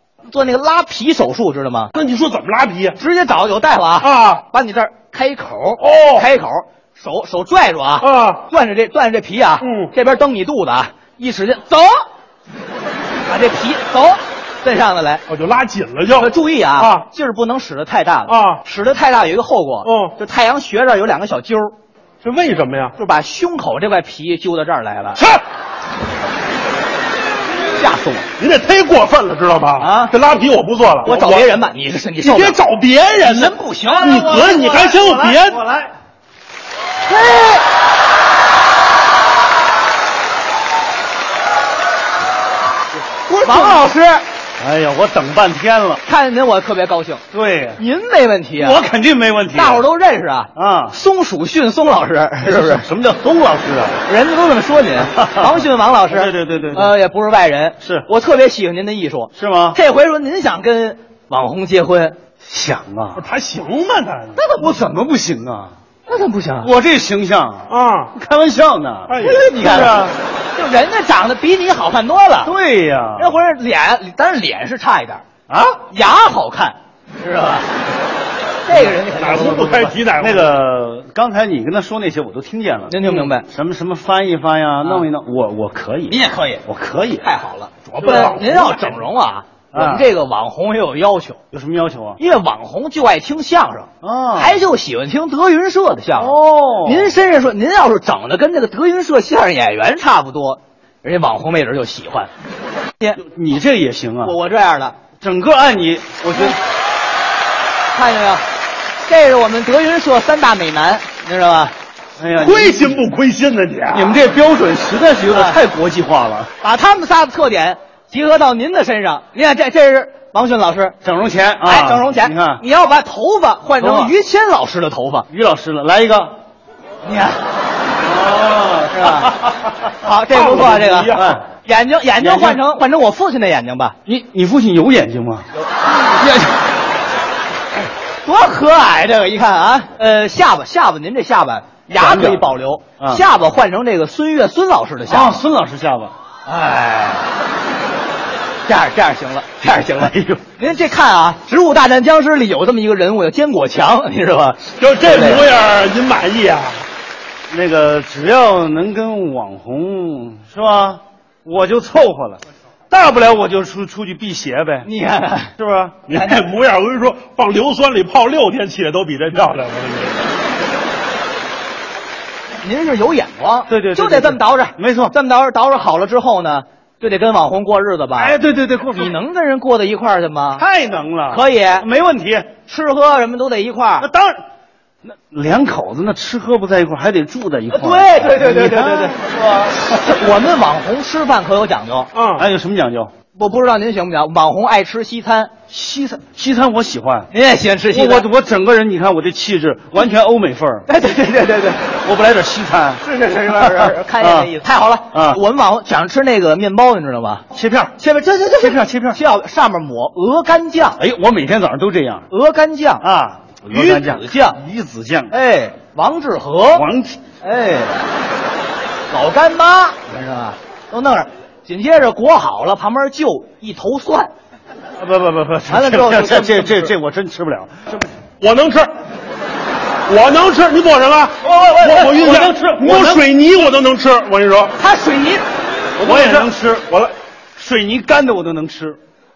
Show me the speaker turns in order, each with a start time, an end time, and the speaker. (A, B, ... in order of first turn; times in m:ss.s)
0:00.3-0:01.9 A
0:01.9-0:03.0 B
0:03.0-0:12.0 A
0:04.0-0:04.4 B
0:05.8-0:06.3 B
0:08.0-0:08.4 B
0:09.6-0:09.9 B
0:13.2-0:15.2 A
0:15.3-0:17.0 B
0:16.1-0:21.7 A
0:18.3-0:18.6 B
0:19.8-0:20.1 B
0:22.2-0:22.9 B
0:23.0-0:25.2 A
0:25.2-0:25.4 B
0:27.7-0:28.3 A
0:28.4-0:31.6 B
0:29.8-0:30.1 A
0:31.0-0:32.6 A
0:32.2-0:35.6 B
0:33.2-0:35.8 A
0:34.1-0:35.8 C
0:37.1-0:37.6 A
0:43.3-0:46.0 C
0:43.3-0:44.2 A
0:46.0-0:47.2 A
0:47.3-0:47.8 C
0:47.8-0:48.8 A
0:48.6-0:49.8 C
0:49.5-0:52.8 A
0:50.5-0:51.0 C
0:52.4-0:54.0 C
0:54.0-1:02.2 A
0:55.0-0:57.0 C
0:57.8-0:58.1 C
0:59.4-0:59.8 C
1:02.4-1:03.2 C
1:03.2-1:04.5 B
1:04.4-1:04.8 A
1:04.4-1:05.7 C
1:06.1-1:06.7 A
1:06.6-1:10.1 C
1:07.7-1:08.1 B
1:09.1-1:09.5 B
1:09.2-1:10.0 A
1:10.5-1:12.5 A
1:12.4-1:13.4 C
1:13.2-1:15.2 A
1:15.5-1:15.8 C
1:15.9-1:17.7 A
1:18.6-1:20.0 A
1:19.0-1:20.6 B
1:20.2-1:27.3 C
1:22.9-1:23.4 A
1:26.1-1:26.6 A
1:27.2-1:31.4 A
1:27.9-1:29.0 B
1:29.7-1:30.1 C
1:31.5-1:32.2 C
1:32.2-1:42.3 A
1:34.0-1:34.6 C
1:36.2-1:37.1 C
1:43.2-1:44.4 C
1:44.2-1:44.9 A
1:45.2-1:46.6 C
1:47.9-1:48.4 A
1:49.0-1:51.7 A
1:52.2-1:53.0 C
1:52.4-1:54.2 B
1:53.9-1:56.5 C
1:55.3-1:55.6 A
1:56.6-2:00.9 A
2:01.0-2:02.6 C
2:01.6-2:05.3 A
2:03.8-2:04.1 C
2:05.3-2:06.4 C
2:07.0-2:07.4 A
2:08.0-2:09.8 C
2:08.9-2:09.3 A
2:10.0-2:14.0 A
2:10.3-2:11.4 B
2:11.1-2:11.4 C
2:12.2-2:12.6 C
2:14.1-2:16.6 C
2:18.2-2:25.4 A
2:22.0-2:22.5 C
2:25.1-2:26.1 C
2:26.4-2:27.3 A
2:28.6-2:35.4 A
2:29.9-2:30.4 C
2:34.8-2:36.8 B
2:37.5-2:44.9 C
2:44.8-2:45.5 A
2:45.6-2:46.0 C
2:46.1-2:50.2 B
2:52.6-2:58.4 A
2:53.7-2:55.1 C
2:58.2-2:59.2 C
2:58.9-3:00.6 A
3:00.6-3:02.5 C
3:01.3-3:01.8 A
3:02.7-3:04.1 A
3:04.0-3:04.4 C
3:05.0-3:10.0 C
3:07.7-3:09.2 A
3:09.8-3:12.1 A
3:12.1-3:12.5 B
3:12.4-3:13.1 C
3:13.3-3:15.5 A
3:15.7-3:17.3 C
3:17.3-3:18.3 A
3:17.9-3:20.9 C
3:20.9-3:21.8 A
3:22.0-3:23.0 C
3:23.0-3:27.4 A
3:23.7-3:24.5 C
3:25.1-3:25.4 C
3:27.5-3:27.9 C
3:28.0-3:31.0 A
3:28.6-3:29.2 C
3:31.0-3:32.2 C
3:32.3-3:33.0 A
3:33.0-3:35.3 C
3:33.7-3:34.6 A
3:35.3-3:36.8 A
3:36.7-3:37.2 C
3:37.4-3:38.0 A
3:39.1-3:44.3 A
3:45.0-3:48.1 C
3:45.7-3:46.9 A
3:48.4-3:48.9 B
3:50.1-3:54.8 B
3:51.4-3:53.2 A
3:51.8-3:53.2 C
3:54.8-3:55.4 A
3:56.0-3:59.0 C
3:56.0-3:56.5 B